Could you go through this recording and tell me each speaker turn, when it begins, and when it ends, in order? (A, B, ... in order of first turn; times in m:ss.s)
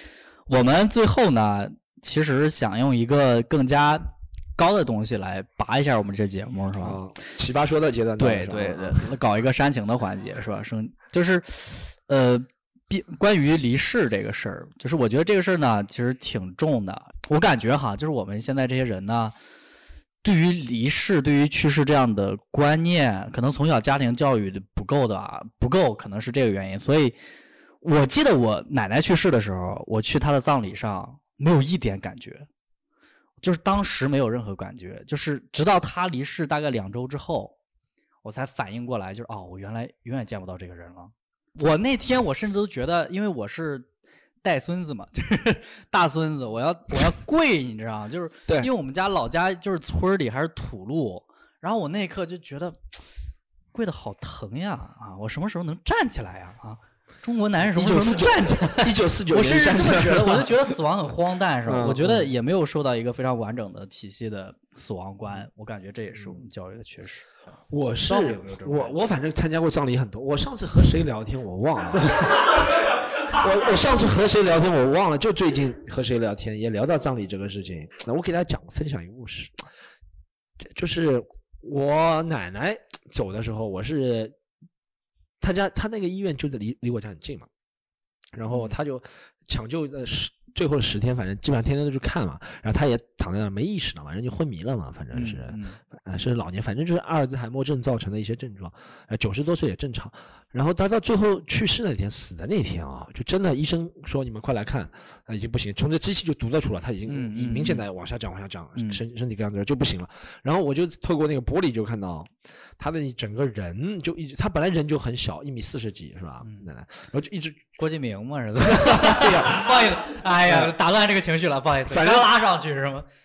0:00.5-0:04.0 A
0:04.6-0:07.0 A
0:06.8-0:09.1 B
0:08.2-0:19.4 A
0:20.2-0:27.2 A
0:27.8-0:32.5 A
0:33.4-0:37.5 A
0:38.2-0:43.9 A
0:44.4-0:53.0 A
0:53.7-1:07.4 A
0:57.6-1:00.6 B
1:01.7-1:02.3 B
1:06.2-1:06.4 B
1:07.7-1:12.7 B
1:08.1-1:09.1 A
1:13.3-1:19.6 B
1:20.6-1:24.4 B
1:25.4-1:27.5 B
1:28.3-1:57.7 B
1:35.1-1:35.8 A
1:47.1-1:47.8 A
1:57.8-2:03.1 A
1:58.7-1:59.8 B
2:00.4-2:00.7 B
2:01.9-2:02.3 B